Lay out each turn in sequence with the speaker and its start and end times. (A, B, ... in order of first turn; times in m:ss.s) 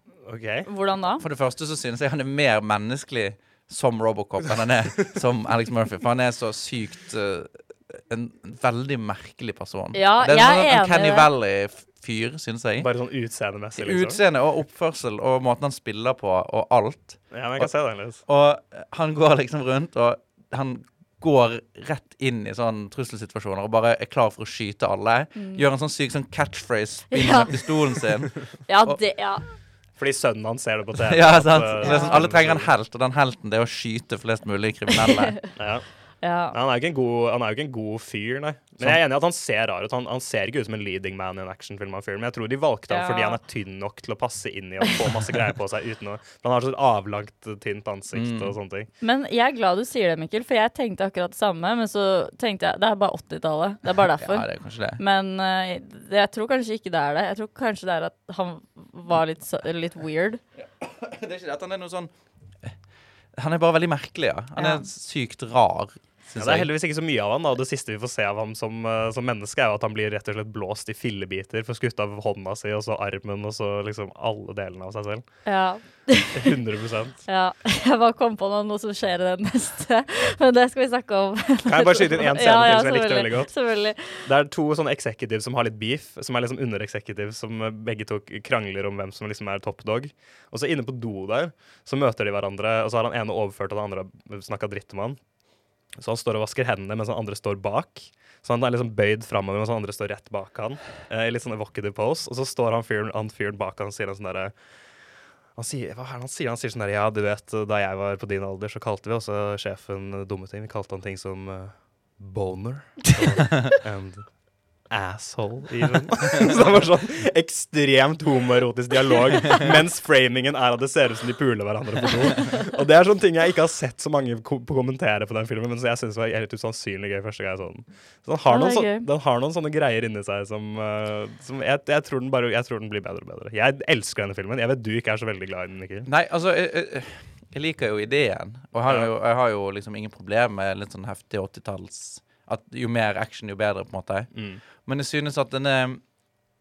0:00.2-0:00.7 A
0:00.7-0:01.2 B
0:01.2-0:12.9 C
0:09.9-0:11.3 B
0:12.8-0:14.2 A
0:13.7-0:17.7 C
0:17.3-0:18.2 A
0:18.2-0:29.0 C
0:25.3-0:25.6 B
0:27.1-0:27.7 B
0:28.6-0:29.4 B
0:30.0-0:32.7 A
0:31.1-0:35.5 C
0:31.8-0:32.2 B
0:35.6-0:35.8 A
0:36.2-0:36.5 B
0:36.5-0:48.9 A
0:42.9-0:43.4 B
0:48.1-0:48.6 C
0:49.0-1:00.4 B
0:54.1-0:55.0 C
1:00.6-1:02.8 C
1:03.3-1:06.7 C
1:04.6-1:04.8 B
1:06.3-1:17.3 A
1:15.4-1:16.4 B
1:17.3-1:24.2 B
1:21.6-1:35.2 A
1:35.9-1:44.5 A
1:45.5-2:16.1 A
2:08.5-2:09.1 B
2:16.0-2:26.0 C
2:24.3-2:24.6 A